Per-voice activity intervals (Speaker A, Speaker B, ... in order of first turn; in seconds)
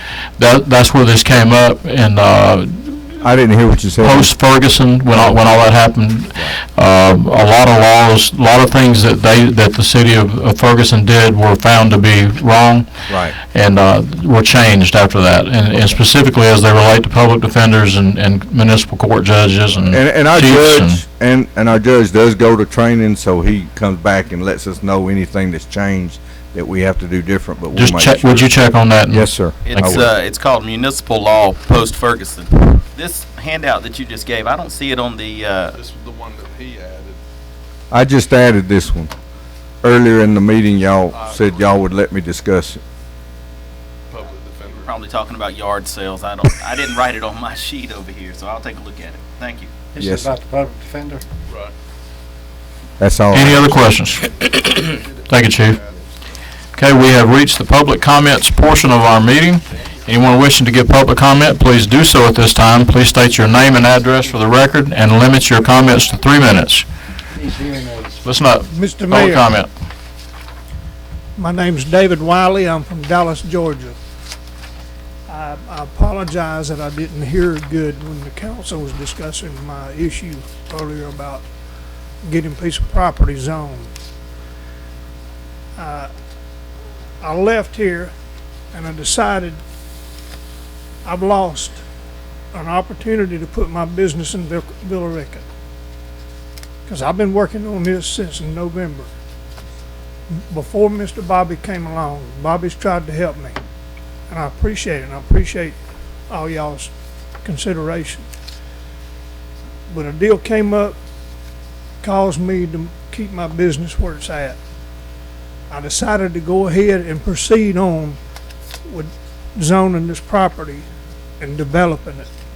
Speaker A: 0.4-3.2, 4.0-12.9, 13.4-21.0, 27.7-30.0, 53.3-55.8, 56.8-66.8, 68.2-69.7
Speaker B: 3.2-4.3, 5.1-5.5, 13.1-13.3, 19.8-28.4, 29.1-30.1, 37.9-39.1, 39.8-42.8, 50.0-50.4, 53.0-53.8
Speaker C: 29.6-35.8, 44.7-49.7
Speaker D: 35.7-37.2, 41.1-41.7, 44.1-45.0, 51.5-51.7, 55.0-56.0
Speaker E: 49.9-51.2, 67.3-68.2
Speaker F: 68.7-69.5, 71.4-74.0, 75.3-81.4, 82.2-83.9, 85.8-86.1, 87.2-88.1, 88.7-89.6, 91.0-91.8, 92.5-95.4, 96.9-99.1, 100.5-103.6, 104.3-105.8, 106.3-106.9, 107.4-108.2, 109.9-111.0, 112.0-114.6, 115.7-118.2, 118.9-120.8, 121.4-122.3